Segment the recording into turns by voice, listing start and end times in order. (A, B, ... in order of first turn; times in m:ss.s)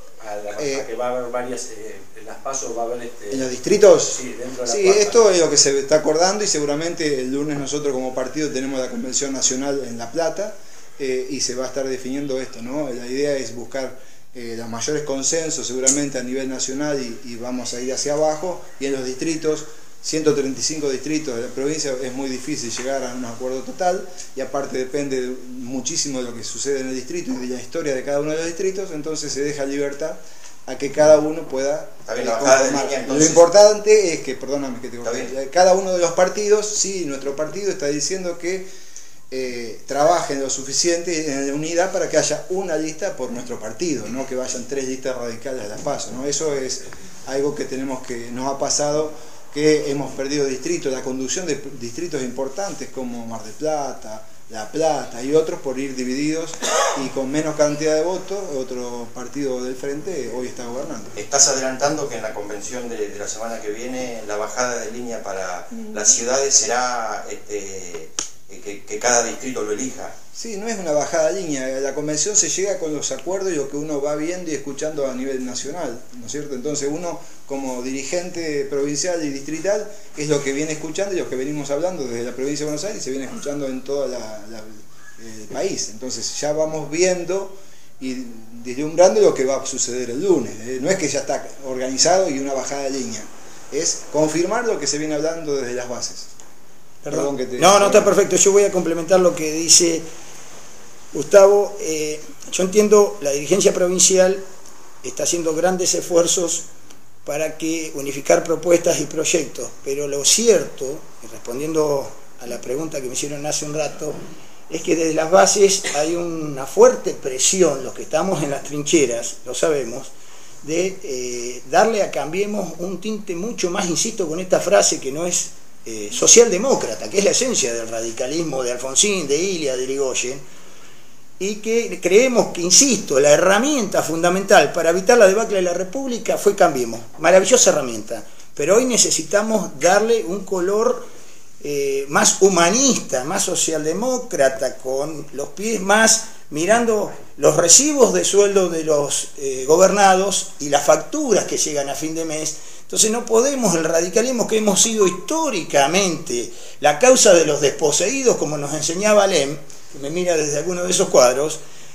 0:00.2-0:05.2 A
0:00.6-0:00.9 B
0:03.3-0:38.7 B
0:32.0-0:33.5 C
0:35.0-0:35.3 C
0:39.3-1:01.2 B
1:01.1-1:10.1 C
1:10.4-1:36.3 B
1:37.0-1:40.0 D
1:37.1-1:38.1 B
1:41.1-1:44.4 D
1:45.0-1:46.6 D
1:47.2-1:54.2 D
1:54.7-2:00.1 D
2:00.6-2:10.4 D
2:11.4-2:21.0 D
2:21.6-2:41.6 D